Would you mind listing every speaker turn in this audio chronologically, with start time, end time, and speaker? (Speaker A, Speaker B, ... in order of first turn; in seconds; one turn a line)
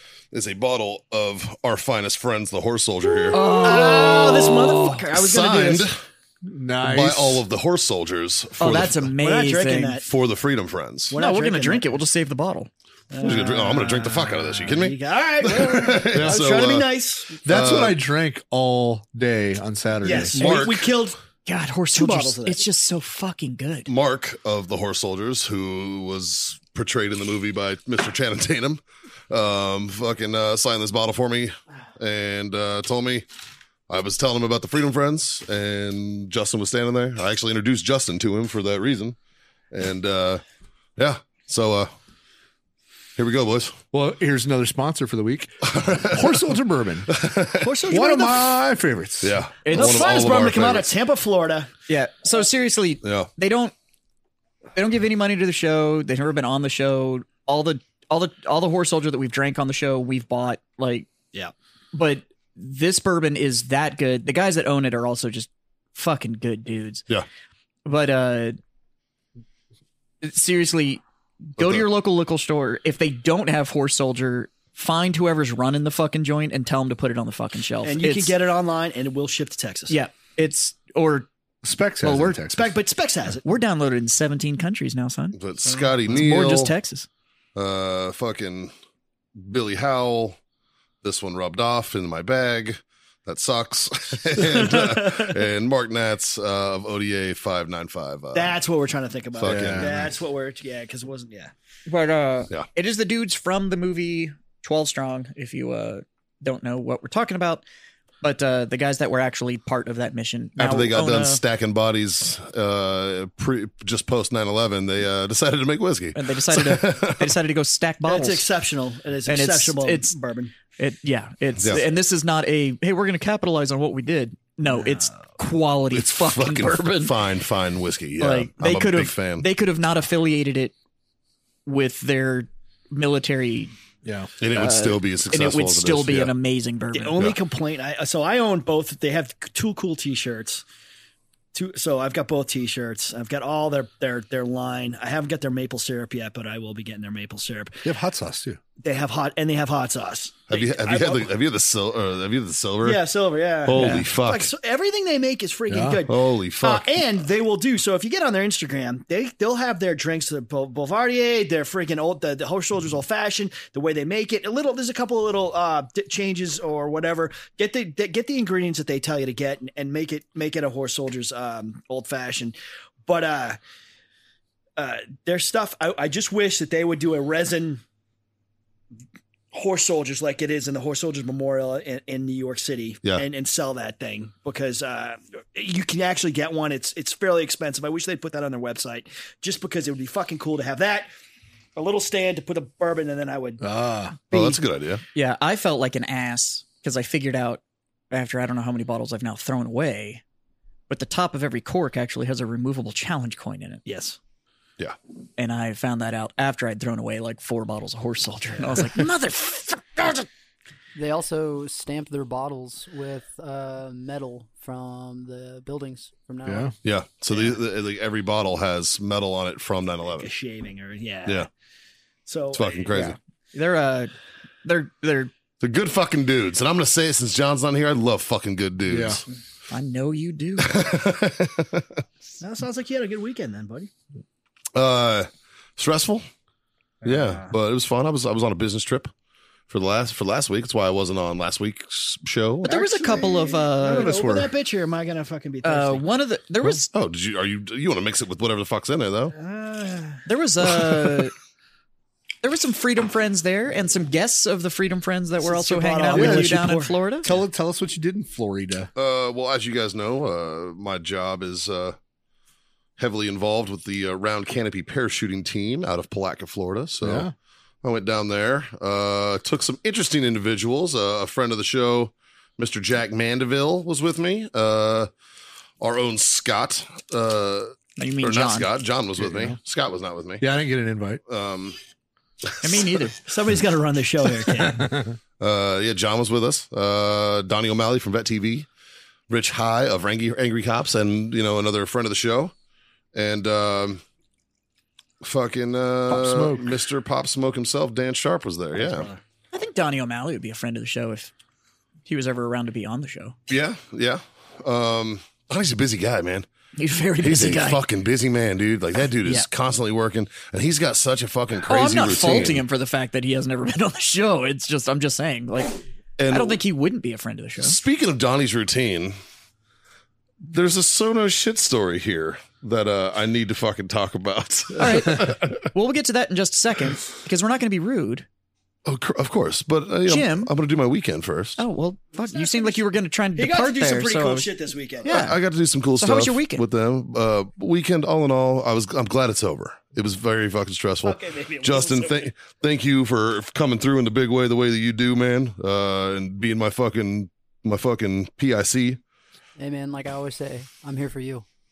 Speaker A: 0.3-3.6
Speaker B: 3.3-4.8
Speaker C: 3.3-5.9
Speaker A: 5.1-6.0
Speaker D: 6.4-7.5
Speaker A: 6.8-9.1
Speaker B: 8.6-10.0
Speaker C: 9.2-10.1
Speaker A: 10.1-11.2
Speaker C: 11.1-12.0
Speaker B: 11.1-12.7
Speaker C: 13.1-17.4
Speaker A: 13.2-18.0
Speaker D: 17.4-20.4
Speaker C: 20.0-21.2
Speaker A: 20.1-20.9
Speaker B: 21.5-23.9
Speaker C: 21.9-22.6
Speaker A: 23.9-33.2
Speaker A: 33.9-39.2
Speaker A: 39.7-40.4
Speaker A: 41.0-41.9
Speaker A: 43.2-43.8
Speaker D: 43.9-47.1
Speaker A: 45.7-46.4
Speaker A: 47.1-47.7
Speaker C: 47.6-48.5
Speaker D: 47.9-49.4
Speaker A: 49.2-50.9
Speaker B: 49.6-50.1
Speaker C: 49.7-51.7
Speaker B: 51.9-53.7
Speaker A: 53.0-53.3
Speaker B: 54.8-61.1
Speaker B: 61.9-67.0
Speaker B: 67.8-68.6
Speaker B: 70.2-71.0
Speaker B: 71.6-78.3
Speaker A: 71.6-71.8
Speaker C: 77.8-80.0
Speaker B: 79.9-81.3
Speaker D: 81.6-82.8
Speaker B: 82.0-82.4
Speaker C: 82.5-83.4
Speaker B: 83.4-85.4
Speaker A: 85.4-86.7
Speaker C: 85.7-85.9
Speaker B: 86.1-87.1
Speaker A: 87.5-88.7
Speaker A: 89.4-90.4
Speaker A: 91.0-98.6
Speaker C: 94.4-95.3
Speaker C: 98.3-101.5
Speaker A: 99.4-100.1
Speaker D: 99.5-99.9
Speaker B: 101.9-107.6
Speaker B: 108.2-111.4
Speaker A: 110.6-117.3
Speaker B: 116.1-118.5
Speaker C: 118.0-120.5
Speaker B: 119.3-120.2
Speaker B: 120.8-127.2
Speaker A: 121.6-121.9
Speaker A: 125.9-129.5
Speaker B: 128.2-130.7
Speaker B: 131.7-133.7
Speaker D: 134.0-134.3
Speaker A: 134.4-136.3
Speaker B: 134.5-137.2
Speaker C: 136.9-140.6
Speaker C: 141.5-147.8
Speaker D: 147.8-148.6
Speaker C: 148.8-151.3
Speaker A: 150.5-153.0
Speaker C: 152.8-173.6
Speaker A: 153.7-154.5
Speaker D: 155.7-156.0
Speaker A: 156.1-157.0
Speaker C: 174.8-177.8
Speaker C: 179.5-191.1
Speaker C: 191.8-193.6
Speaker D: 193.6-194.2
Speaker A: 194.3-195.0
Speaker B: 194.3-194.6
Speaker B: 195.1-200.2
Speaker B: 200.9-203.8
Speaker C: 203.8-204.2
Speaker B: 205.4-210.3
Speaker E: 210.9-216.7
Speaker D: 216.5-216.7
Speaker A: 216.8-220.3
Speaker C: 220.1-221.5
Speaker C: 222.3-223.1
Speaker A: 222.5-223.2
Speaker B: 222.9-224.1
Speaker B: 224.6-225.3
Speaker A: 225.6-229.2
Speaker D: 228.9-229.2
Speaker B: 229.7-230.8
Speaker A: 230.6-231.9
Speaker C: 232.4-233.9
Speaker A: 234.8-236.2
Speaker C: 237.0-237.5
Speaker A: 237.0-239.1
Speaker A: 239.7-242.8
Speaker B: 242.6-244.2
Speaker C: 242.7-246.1
Speaker D: 243.9-244.5
Speaker B: 245.6-246.9
Speaker A: 246.9-249.3
Speaker C: 249.3-250.2
Speaker B: 250.3-251.3
Speaker B: 252.4-257.4
Speaker C: 255.4-256.9
Speaker D: 256.1-256.6
Speaker D: 257.2-258.9
Speaker A: 258.9-262.0
Speaker A: 263.0-267.3
Speaker D: 267.0-267.3
Speaker A: 267.8-275.1
Speaker A: 275.8-280.4
Speaker B: 278.0-278.7
Speaker D: 279.2-279.6
Speaker D: 280.4-281.2
Speaker A: 281.3-281.8
Speaker A: 282.5-282.9
Speaker B: 282.6-283.2
Speaker C: 283.3-284.9
Speaker D: 284.7-285.1
Speaker A: 285.4-288.7
Speaker A: 289.3-292.5
Speaker A: 293.1-294.0
Speaker A: 295.2-299.1
Speaker D: 296.1-296.7
Speaker C: 298.8-299.2
Speaker B: 299.5-301.3
Speaker B: 302.1-303.4
Speaker A: 303.5-306.5
Speaker B: 306.8-307.8
Speaker A: 307.2-312.6
Speaker B: 311.7-317.8
Speaker A: 316.2-316.6
Speaker A: 317.6-319.2
Speaker A: 320.4-325.6
Speaker B: 324.8-328.3
Speaker A: 328.9-331.6
Speaker B: 330.1-330.5
Speaker B: 331.6-334.5
Speaker C: 332.2-332.9
Speaker C: 333.4-335.2
Speaker B: 335.0-335.4
Speaker A: 335.1-349.0
Speaker B: 336.0-336.6
Speaker C: 341.0-342.3
Speaker E: 349.6-351.4